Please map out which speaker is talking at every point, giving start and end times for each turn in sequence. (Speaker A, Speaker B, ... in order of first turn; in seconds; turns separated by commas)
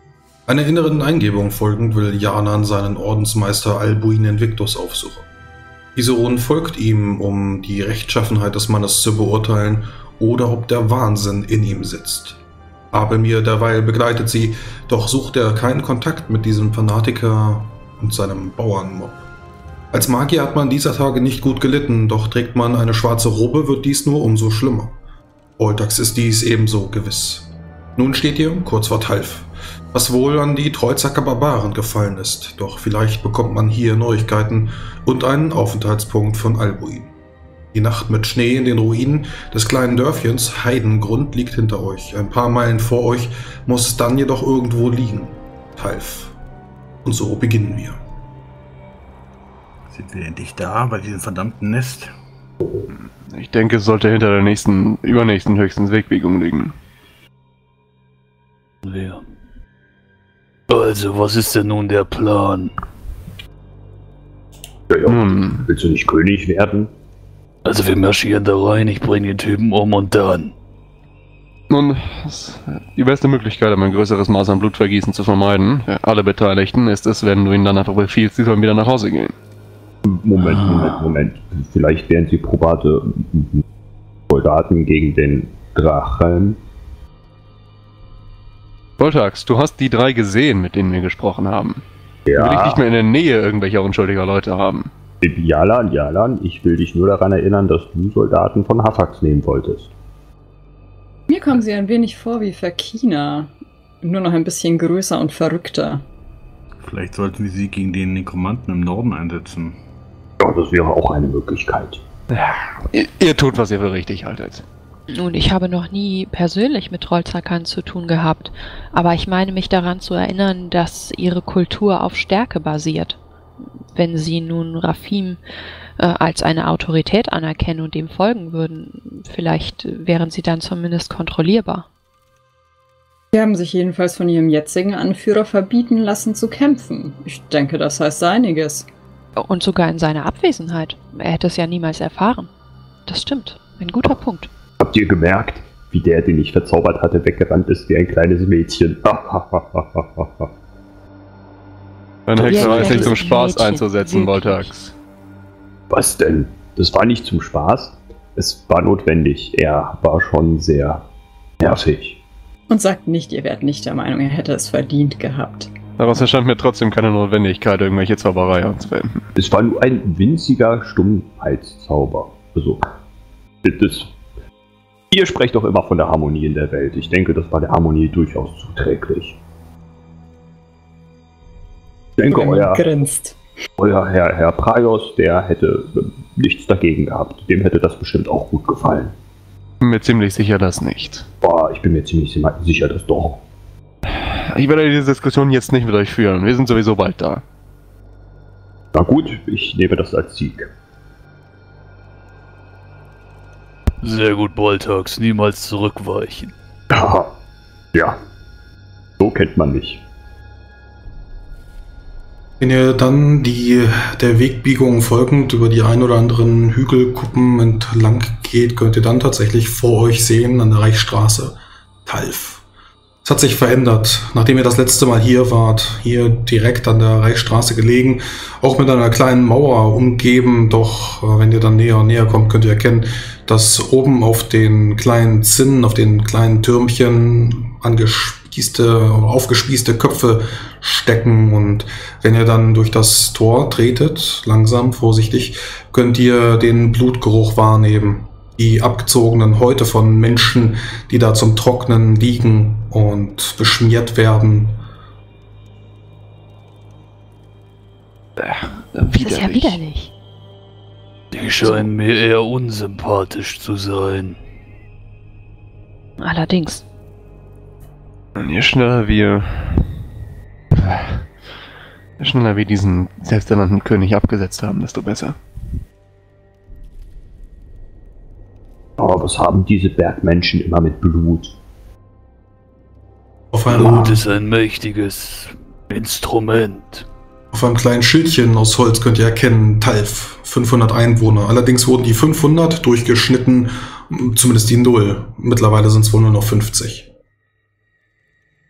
Speaker A: 0.5-5.3, Speaker A: 5.9-12.4, Speaker A: 12.9-19.2, Speaker A: 19.9-24.9, Speaker A: 25.6-37.1, Speaker A: 37.7-46.3, Speaker A: 47.0-48.0, Speaker B: 49.9-52.1, Speaker C: 52.9-56.8, Speaker D: 58.8-59.2, Speaker D: 60.7-62.7, Speaker E: 64.9-66.9, Speaker C: 65.1-65.7, Speaker D: 67.6-70.5, Speaker C: 71.7-79.3, Speaker E: 80.0-83.6, Speaker D: 80.4-81.0, Speaker E: 84.3-86.6, Speaker C: 89.0-91.8, Speaker E: 92.3-92.8, Speaker C: 92.3-94.9, Speaker E: 95.2-99.9, Speaker F: 101.3-106.0, Speaker B: 106.8-109.8, Speaker E: 110.4-112.0, Speaker C: 112.3-114.6, Speaker G: 115.1-123.2, Speaker G: 123.9-125.4, Speaker G: 126.0-131.9, Speaker F: 133.3-138.9, Speaker G: 139.4-142.5, Speaker G: 143.1-144.5, Speaker E: 144.8-150.4, Speaker C: 152.3-154.8, Speaker G: 152.3-154.9, Speaker D: 152.4-153.1, Speaker E: 152.7-153.1, Speaker E: 155.9-161.0, Speaker E: 161.6-162.2, Speaker F: 162.7-165.7, Speaker C: 166.0-169.3, Speaker E: 169.4-172.8, Speaker E: 173.6-174.1, Speaker E: 175.1-179.4, Speaker E: 182.2-182.8, Speaker F: 182.3-183.4, Speaker E: 183.8-189.1, Speaker C: 189.8-191.2, Speaker E: 191.4-193.4, Speaker C: 194.1-197.4, Speaker E: 198.9-200.7, Speaker D: 204.0-206.5, Speaker E: 206.9-207.3, Speaker E: 209.2-210.0, Speaker A: 212.6-222.6, Speaker A: 223.2-254.8, Speaker C: 258.4-259.8, Speaker G: 259.1-260.1, Speaker D: 261.3-264.4, Speaker G: 266.2-266.8, Speaker C: 268.4-269.9, Speaker C: 270.7-271.3, Speaker C: 272.2-275.4, Speaker E: 279.0-281.5, Speaker A: 283.5-284.2, Speaker D: 283.7-287.1, Speaker A: 287.5-297.1